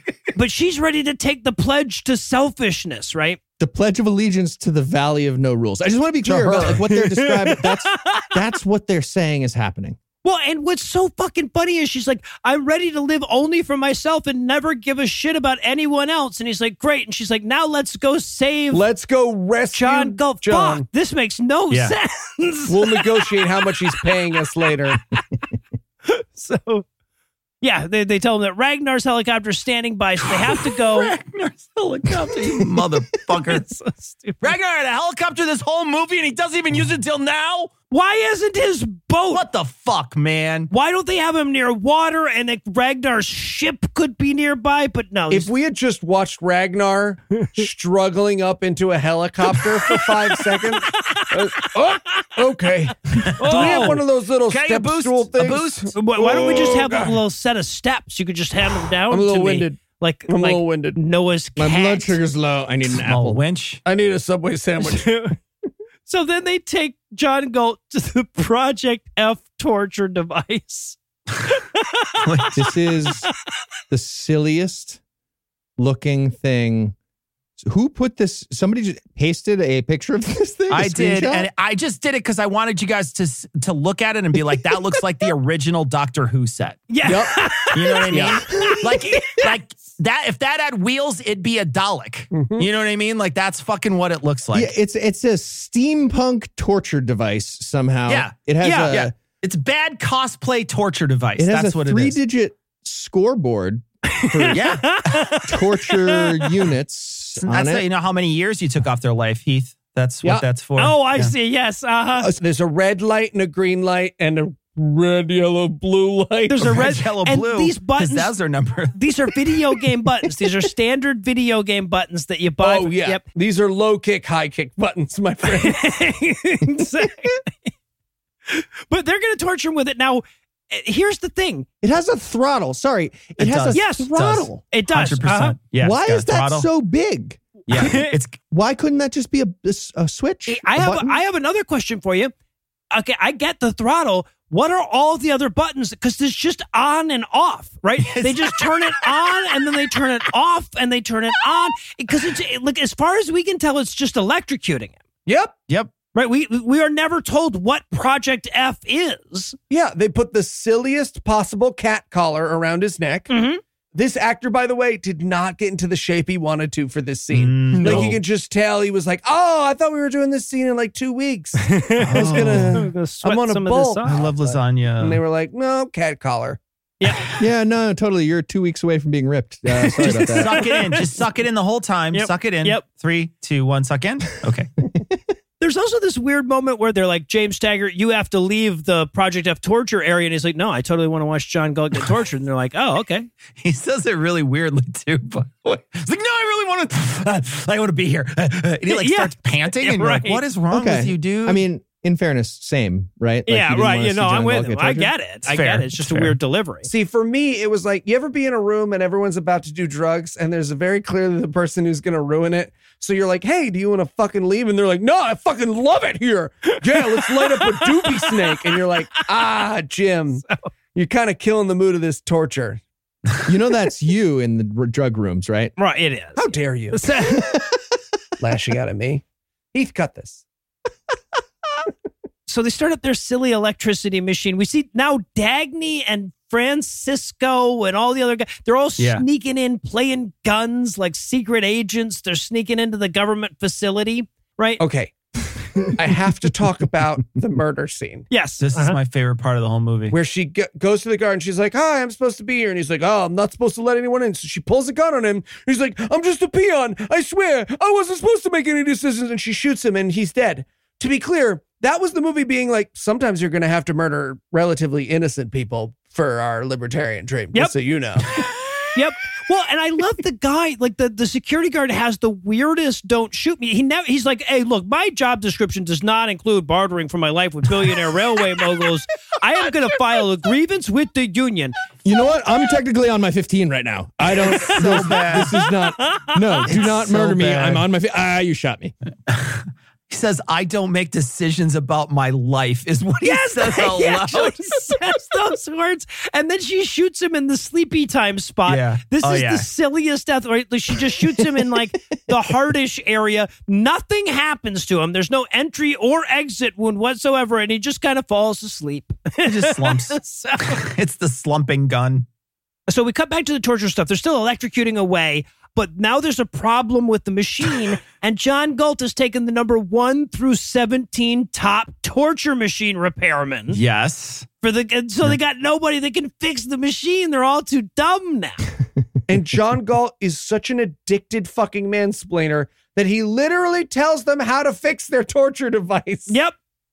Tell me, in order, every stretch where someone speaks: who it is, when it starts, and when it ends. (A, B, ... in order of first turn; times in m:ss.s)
0:00.3-0:03.4 A
0:03.6-0:10.0 B
0:06.2-0:06.8 C
0:06.6-0:08.3 A
0:10.2-0:18.9 A
0:18.7-0:20.8 C
0:19.7-0:23.3 A
0:22.7-0:25.0 C
0:26.1-0:26.9 A
0:27.6-0:31.2 A
0:30.3-0:33.7 D
0:33.4-0:34.5 A
0:34.4-0:37.7 D
0:37.9-0:39.4 A
0:39.3-0:40.7 D
0:40.7-0:45.5 A
0:45.3-0:57.2 C
0:49.9-0:51.8 A
0:53.2-0:55.9 D
0:53.4-0:54.0 A
0:56.0-1:02.2 A
0:59.1-1:01.0 C
1:01.6-1:03.4 B
1:02.8-1:03.8 D
1:03.8-1:05.1 C
1:04.8-1:05.4 A
1:06.1-1:11.0 A
1:11.5-1:12.5 A
1:12.2-1:12.6 D
1:12.5-1:13.3 B
1:13.9-1:15.0 B
1:15.8-1:17.0 B
1:17.6-1:21.5 B
1:20.7-1:27.1 D
1:26.9-1:29.4 A
1:27.0-1:27.4 C
1:27.7-1:34.7 D
1:28.1-1:28.4 C
1:32.3-1:32.7 C
1:34.5-1:39.1 B
1:38.1-1:42.2 D
1:38.6-1:38.9 A
1:41.4-1:44.8 B
1:44.1-1:46.4 A
1:44.5-1:45.4 D
1:45.4-1:47.9 B
1:47.4-1:51.3 D
1:50.8-1:52.3 A
1:52.4-1:56.9 C
1:56.5-1:58.4 A
1:56.6-1:59.0 D
1:58.9-2:03.2 A
2:02.6-2:05.9 C
2:05.5-2:07.7 A
2:08.5-2:11.7 A
2:11.8-2:14.5 B
2:13.4-2:16.7 D
2:13.7-2:15.6 A
2:15.8-2:17.9 B
2:17.7-2:18.4 D
2:17.7-2:18.1 A
2:18.5-2:21.2 B
2:20.5-2:22.3 A
2:22.9-2:35.0 A
2:28.0-2:29.1 D
2:35.3-2:35.5 C
2:36.2-2:39.6 A
2:39.7-2:43.3 C
2:43.3-2:43.6 A
2:43.9-2:56.6 C
2:47.3-2:48.2 D
2:47.8-2:48.2 B
2:51.6-2:54.2 A
2:52.0-2:52.8 D
2:54.0-2:55.2 D
2:57.0-2:57.3 A
2:57.1-2:57.4 D
2:57.4-3:00.7 B
3:00.0-3:04.7 D
3:00.0-3:01.0 A
3:02.1-3:02.8 A
3:05.6-3:13.3 A
3:13.6-3:21.6 D
3:18.9-3:20.4 A
3:20.7-3:25.1 B
3:23.5-3:26.9 A
3:25.5-3:26.4 D
3:26.9-3:42.8 C
3:37.3-3:38.8 A
3:43.4-3:45.7 B
3:45.8-3:47.6 A
3:46.4-3:47.1 C
3:48.4-3:50.4 C
3:52.5-4:04.8 A
3:59.0-3:59.2 D
4:04.8-4:05.1 C
4:05.8-4:08.3 C
4:08.3-4:09.0 A
4:08.6-4:10.2 D
4:10.1-4:28.3 C
4:28.9-4:41.8 A
4:42.0-4:48.9 B
4:44.6-4:45.3 A
4:44.6-4:45.5 D
4:46.0-4:46.6 A
4:46.7-4:47.9 D
4:49.3-4:55.0 D
4:53.2-5:10.8 A
4:58.7-4:59.7 D
5:09.4-5:12.3 D
5:12.9-5:23.8 A
5:23.7-5:24.5 D
5:24.6-5:28.6 A
5:29.3-5:36.3 C
5:36.3-5:36.6 A